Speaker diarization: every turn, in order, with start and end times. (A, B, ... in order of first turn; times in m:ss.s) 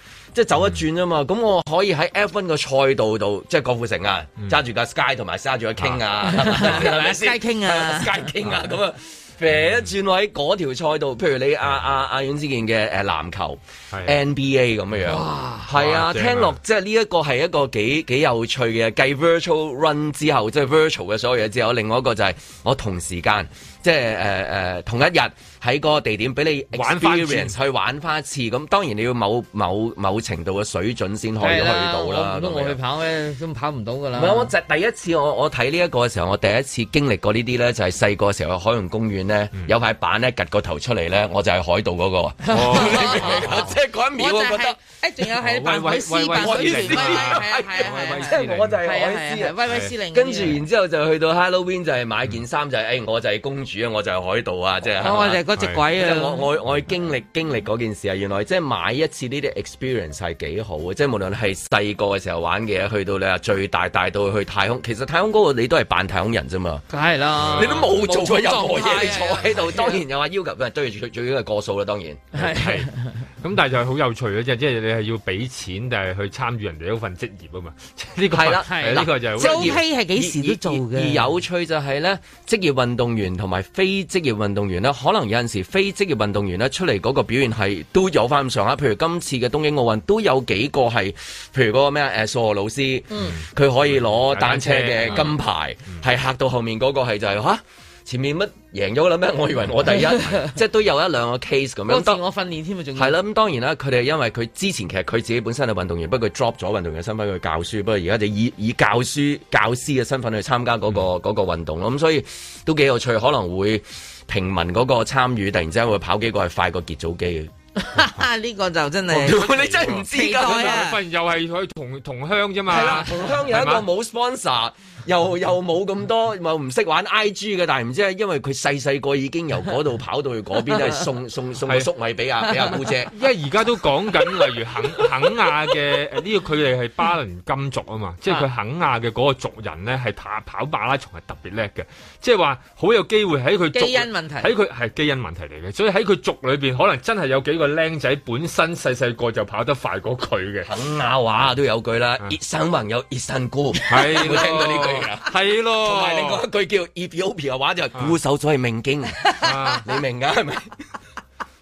0:00.3-0:32.8 A
0:06.2-0:08.4 B
0:13.9-0:14.2 C
0:15.1-0:15.6 B
0:15.7-0:16.6 C
0:26.7-0:27.6 C
0:31.4-0:34.5 B
0:34.1-0:44.8 A
0:42.4-0:50.6 B
0:42.5-0:43.7 C
0:45.4-0:48.8 C
0:46.3-1:06.8 A
0:55.0-0:56.5 B
0:55.6-0:55.8 C
1:06.9-1:10.0 B
1:07.4-1:07.9 C
1:07.5-1:12.4 A
1:12.4-1:13.1 B
1:12.4-1:12.9 C
1:13.4-1:19.8 C
1:18.3-1:42.2 A
1:18.6-1:21.2 B
1:33.2-1:35.4 C
1:39.9-1:40.6 B
1:41.9-1:43.2 B
1:43.0-1:57.5 A
1:57.8-2:01.0 B
1:59.1-2:00.9 A
1:59.2-2:03.8 C
2:02.7-2:13.1 A
2:02.8-2:03.0 B
2:13.1-2:30.7 C
2:23.7-2:24.5 B
2:30.6-2:40.7 A
2:33.9-2:36.4 C
2:39.4-2:39.9 C